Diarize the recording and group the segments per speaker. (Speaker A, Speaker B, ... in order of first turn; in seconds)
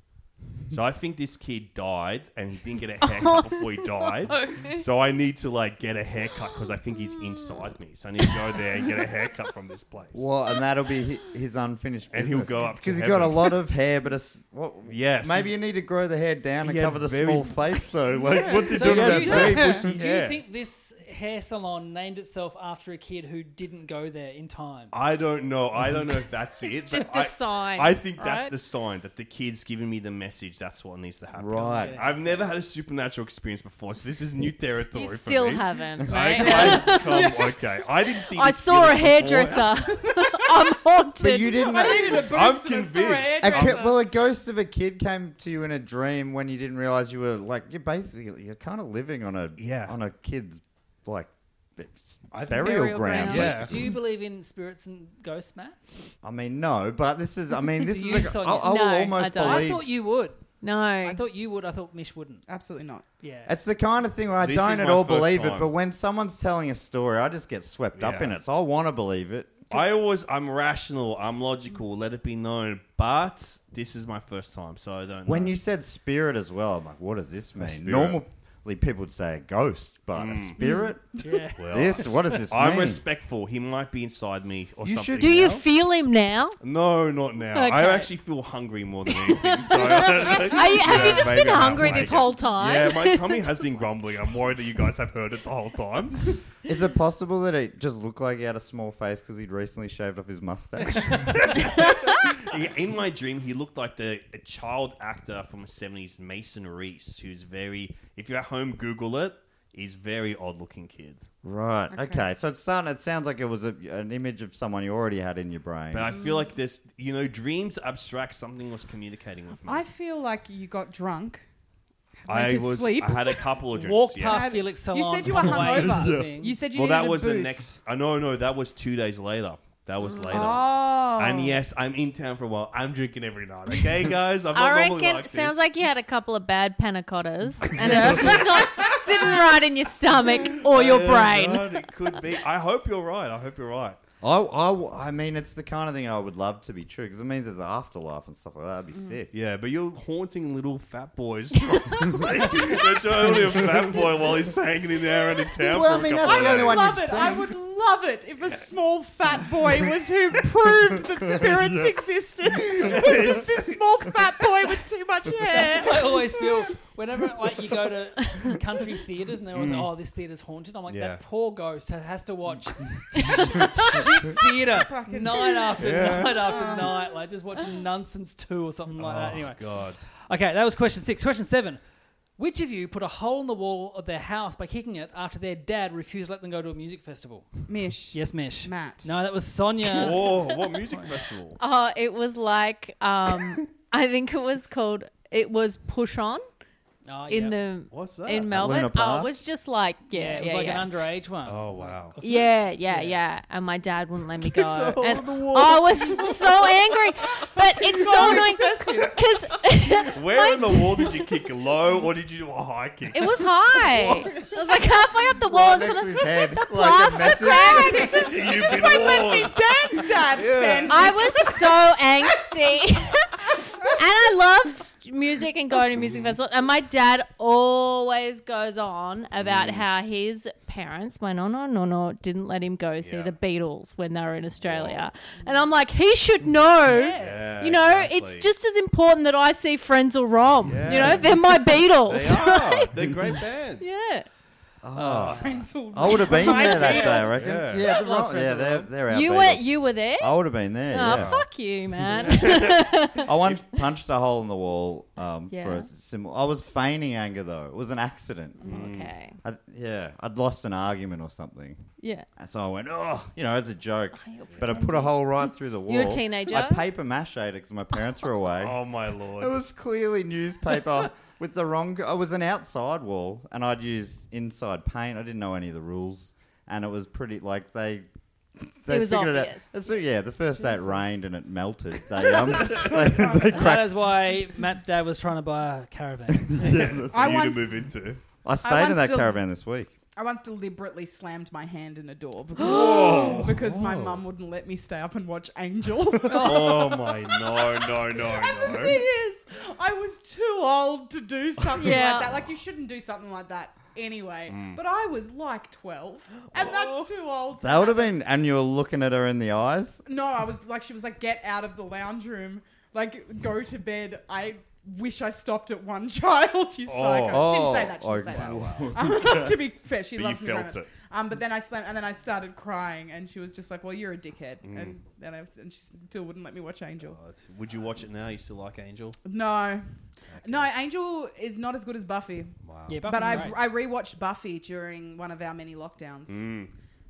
Speaker A: 0.7-10.3, 12.1-13.5, 14.9-15.5, 16.6-17.6, 18.5-20.4, 24.9-39.7, 42.0-43.9, 49.6-50.0, 52.3-53.7, 64.4-65.7, 67.9-68.3, 69.7-75.5, 77.6-78.2, 80.1-80.6, 81.6-85.6, 86.6-96.3, 101.2-111.3, 115.9-119.9, 122.3-124.7, 126.7-135.6, 140.4-144.0, 149.3-157.2, 162.8-163.7, 169.5-169.9, 170.9-171.2, 175.8-176.5, 179.0-180.1, 189.9-191.6, 197.9-198.5, 201.4-202.2, 204.4-207.3, 210.0-214.4, 218.2-219.6, 220.3-221.1, 225.9-226.3, 229.4-229.9, 233.0-233.3, 234.6-235.1, 237.1-238.5, 240.7-243.9, 246.8-247.9, 251.0-251.4, 252.1-252.8, 258.6-259.1, 268.6-269.6, 286.6-288.2, 292.6-294.2, 296.4-299.0, 304.5-304.8, 306.5-307.0, 316.9-317.5, 318.3-319.4, 320.1-320.9, 324.6-324.9, 327.0-329.2, 330.3-330.7, 332.6-333.5, 336.3-336.7
Speaker B: 3.1-4.8, 26.6-28.5, 34.9-37.4, 38.3-41.7, 52.5-53.6, 58.6-59.8, 60.6-61.2, 80.6-80.9, 85.2-86.6, 87.5-88.1, 89.1-93.6, 130.0-130.5, 134.5-141.7, 173.2-173.7, 191.6-196.4, 197.3-200.9, 202.2-211.2, 213.1-219.1, 220.9-242.9, 243.8-244.2, 249.1-250.4, 250.9-253.3, 255.5-255.9, 258.6-259.4, 262.0-262.2, 264.1-265.2, 265.9-266.8, 278.9-279.7, 301.7-302.3
Speaker C: 10.1-19.9, 31.3-31.9, 41.2-42.3, 43.4-53.8, 56.2-59.8, 63.5-69.6, 75.2-81.1, 81.6-83.0, 84.8-85.6, 96.7-101.5, 111.4-116.1, 125.5-126.3, 144.2-149.3, 153.2-154.2, 155.6-157.5, 161.2-162.0, 198.3-199.4, 214.0-214.4, 215.4-218.2, 244.8-251.4, 253.2-258.8, 259.4-268.8, 269.3-278.1, 278.6-284.0, 286.5-287.4, 288.4-289.9, 307.6-310.0, 317.3-319.6
Speaker D: 18.3-19.9, 36.3-37.5, 39.9-40.4, 41.5-44.0, 62.5-63.0, 111.9-112.2, 119.6-121.4, 122.2-123.5, 124.2-127.7, 130.3-131.6, 137.8-139.5, 155.9-166.4, 174.7-176.9, 187.7-189.1, 207.6-209.2, 217.4-221.6, 245.2-247.6, 280.5-281.1, 282.6-283.6, 287.1-287.8, 288.6-289.4, 290.1-308.1, 310.1-327.2, 329.2-332.5, 333.0-336.4
Speaker E: 18.7-24.9, 31.6-32.5, 52.9-55.8, 57.8-60.4, 61.0-62.4, 63.2-63.5, 81.2-82.2, 123.8-126.5, 165.5-181.8, 182.4-190.4, 197.1-197.6, 200.1-203.2, 237.0-237.2, 244.9-245.6, 246.4-248.8, 283.5-286.6, 296.3-296.7, 332.9-333.6